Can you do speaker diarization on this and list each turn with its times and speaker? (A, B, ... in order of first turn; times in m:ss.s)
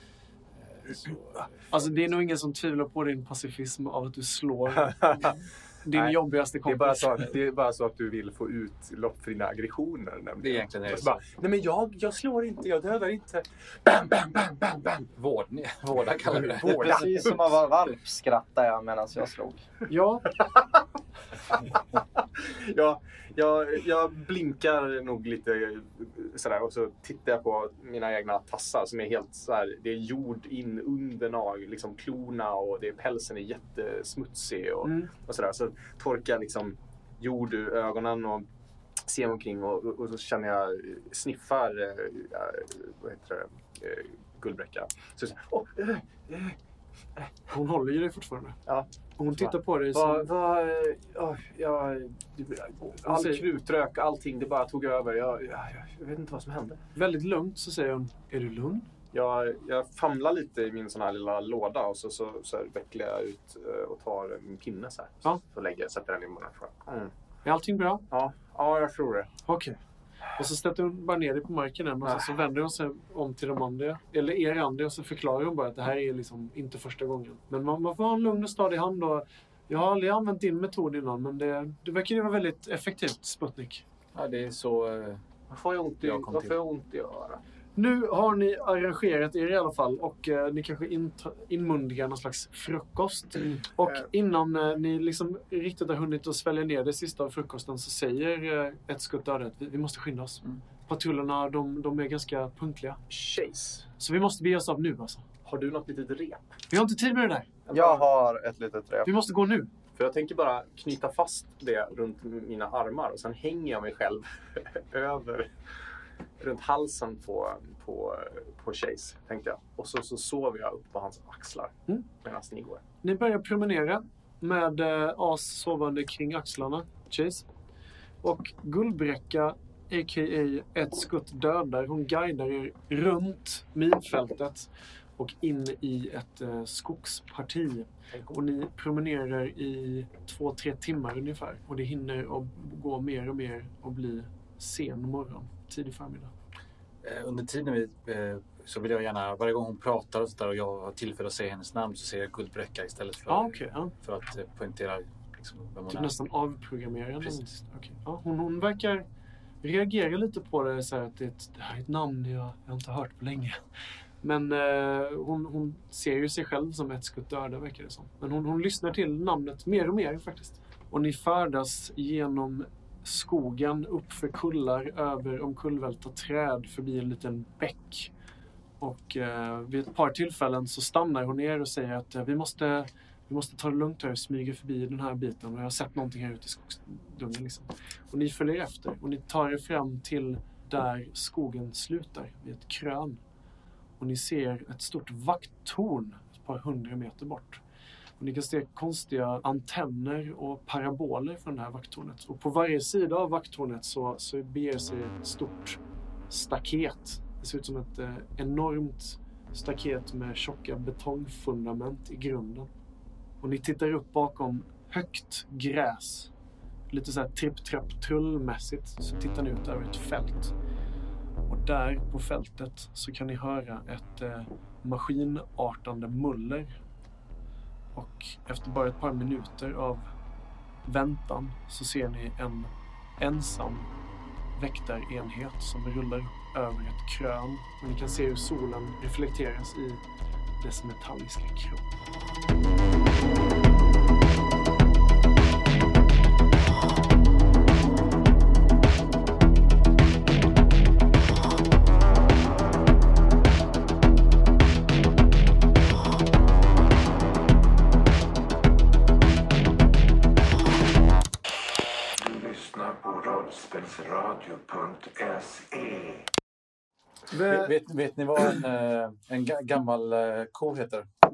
0:00.6-0:01.9 A
0:01.7-0:07.3 B
0:04.8-0:05.3 C
0:06.6-0:15.1 C
0:10.4-0:11.2 A
0:15.1-0:17.1 A
0:16.3-0:17.5 C
0:16.6-0:19.6 D
0:19.9-0:20.4 B
0:20.4-0:20.8 C
0:21.9-0:38.5 C
0:34.8-0:35.1 B
0:39.0-0:46.6 C
0:47.5-0:48.6 B
0:48.7-0:56.8 C
0:49.2-0:50.3 B
0:53.0-0:53.4 B
0:56.9-0:58.9 B
0:59.1-1:07.1 C
1:07.4-1:08.0 B
1:08.1-1:09.3 C
1:09.4-1:09.8 B
1:10.4-1:23.8 B
1:24.1-1:25.2 A
1:25.5-1:27.4 C
1:26.0-1:26.6 A
1:27.8-1:43.0 B
1:43.1-1:43.8 C
1:44.0-1:45.2 B
1:45.4-1:46.4 C
1:46.7-1:47.6 B
1:47.7-1:48.0 C
1:47.7-1:49.1 D
1:49.0-1:49.7 B
1:50.0-1:55.5 C
1:56.4-2:02.8 C
2:03.0-2:07.4 B
2:08.2-2:26.3 B
2:27.0-2:36.1 A
2:33.3-2:33.9 B
2:35.9-2:39.0 B
2:39.6-2:43.6 B
2:44.2-2:58.1 B
2:58.8-3:13.2 B
3:14.0-3:17.6 B
3:18.2-3:32.7 B
3:33.4-3:36.3 B
3:36.9-3:40.5 B
3:41.5-3:46.8 B
3:48.0-3:50.1 B
3:50.8-3:53.9 B
3:54.6-4:00.0 B
4:00.6-4:01.8 B
4:22.2-4:26.1 A
4:27.3-4:27.7 B
4:27.5-4:31.1 A